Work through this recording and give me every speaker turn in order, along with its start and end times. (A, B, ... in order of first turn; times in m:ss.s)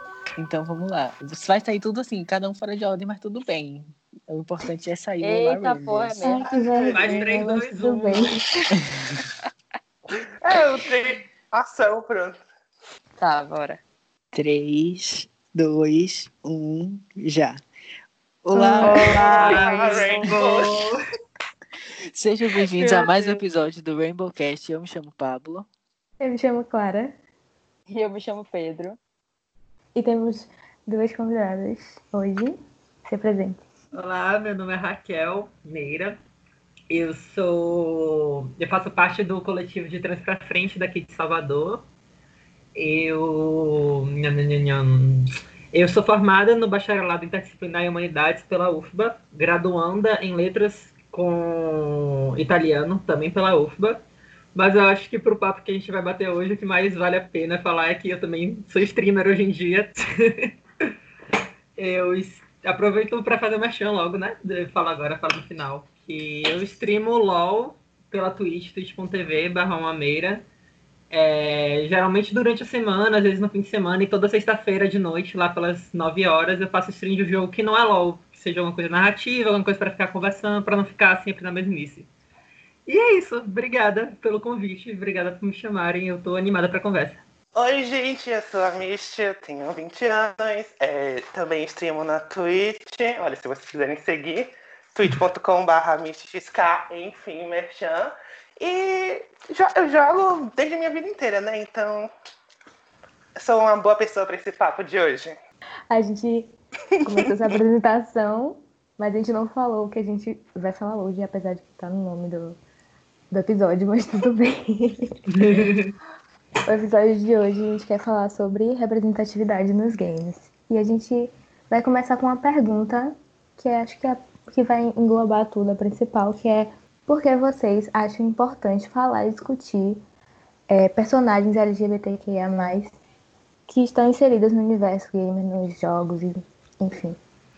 0:00.4-0:06.2 A
0:05.2-0:07.2 B
0:06.2-0:08.4 C
0:06.4-0:07.2 D
0:06.9-0:08.3 E
0:08.9-0:09.2 A
0:10.4-0:12.4 D
0:13.2-0:13.8 B
0:14.3-0:17.6 A
0:18.4-0:19.4 A
0:18.8-0:20.3 B
0:19.2-0:20.9 D
0:19.2-0:21.0 E
0:22.1-0:25.7 A
0:22.7-0:23.4 B
0:26.2-0:27.1 C
0:27.9-0:29.0 B
0:29.9-0:33.6 C
0:33.9-0:36.2 E
0:36.9-0:41.8 E
0:42.7-0:54.0 E
0:54.5-1:00.5 E
1:01.8-1:10.4 E
1:11.1-1:22.1 E
1:22.8-1:27.2 E
1:27.5-1:42.1 D
1:43.4-1:45.4 D
1:45.9-1:46.5 C
1:47.0-1:52.6 C
1:53.3-1:55.1 C
1:55.3-1:55.9 E
1:56.6-2:10.0 C
2:10.7-2:13.0 C
2:13.7-2:17.2 C